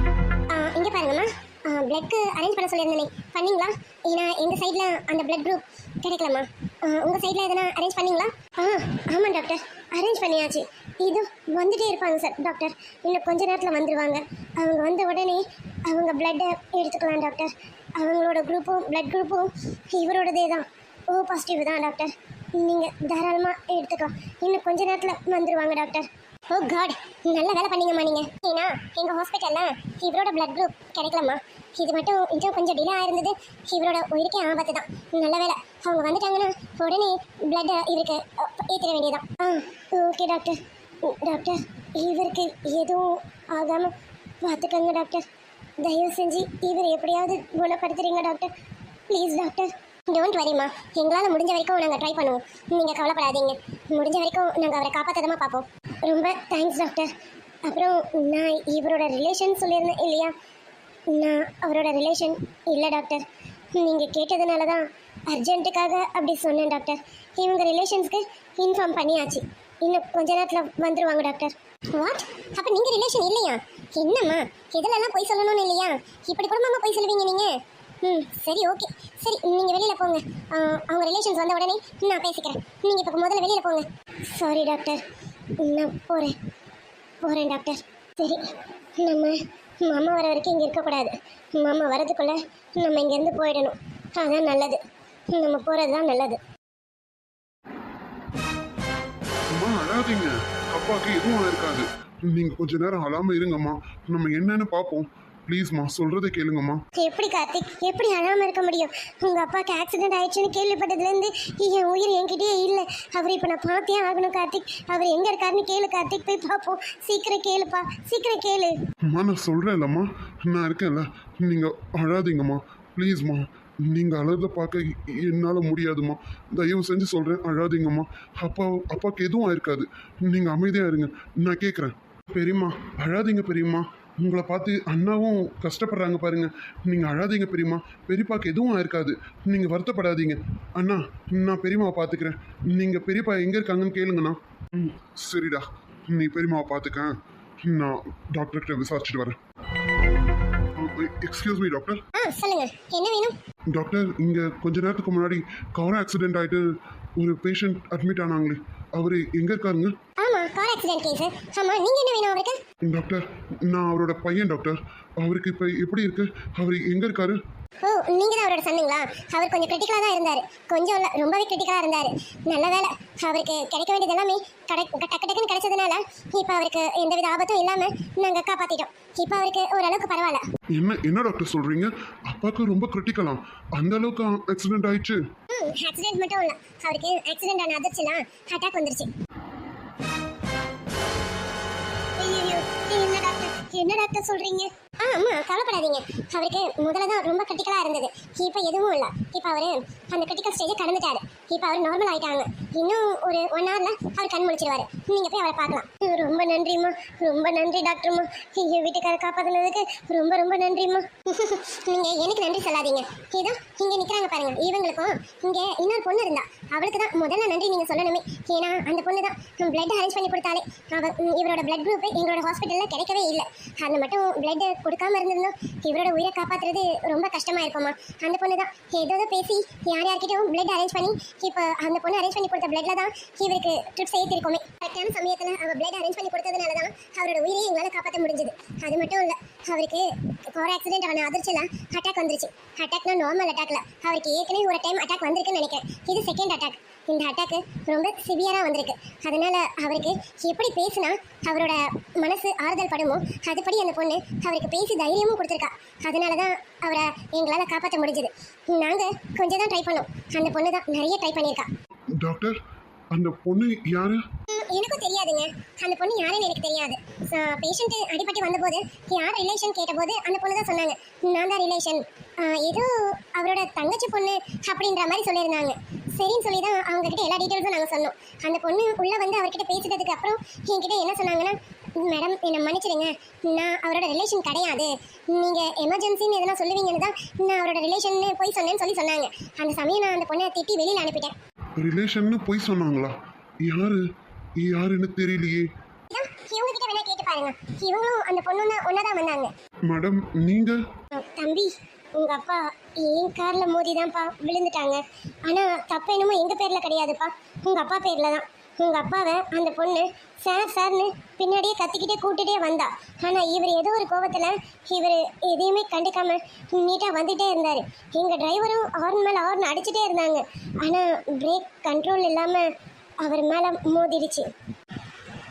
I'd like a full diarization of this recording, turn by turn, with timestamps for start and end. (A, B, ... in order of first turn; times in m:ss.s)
0:00.5-0:45.3 A
0:45.8-0:48.5 A
0:49.1-0:57.1 A
0:57.6-1:00.4 A
1:01.1-1:25.0 A
1:25.6-1:26.4 A
1:27.2-1:34.8 A
1:35.3-1:36.4 A
1:39.5-1:46.8 B
1:47.0-1:58.8 A
1:59.1-2:29.4 B
2:30.8-2:32.0 B
2:32.2-2:33.4 A
2:33.7-2:39.9 B
2:40.2-2:42.6 A
2:42.9-2:47.4 B
2:47.8-3:00.4 A
3:00.8-3:05.2 B
3:05.5-3:09.1 A
3:12.2-4:21.7 A
4:22.2-4:22.6 B
4:23.1-4:24.2 B
4:24.5-4:51.3 A
4:51.8-4:54.0 B
4:54.6-4:55.7 B
4:56.1-4:59.5 A
4:59.9-5:00.8 B
5:01.2-5:22.7 A
5:23.2-5:24.5 A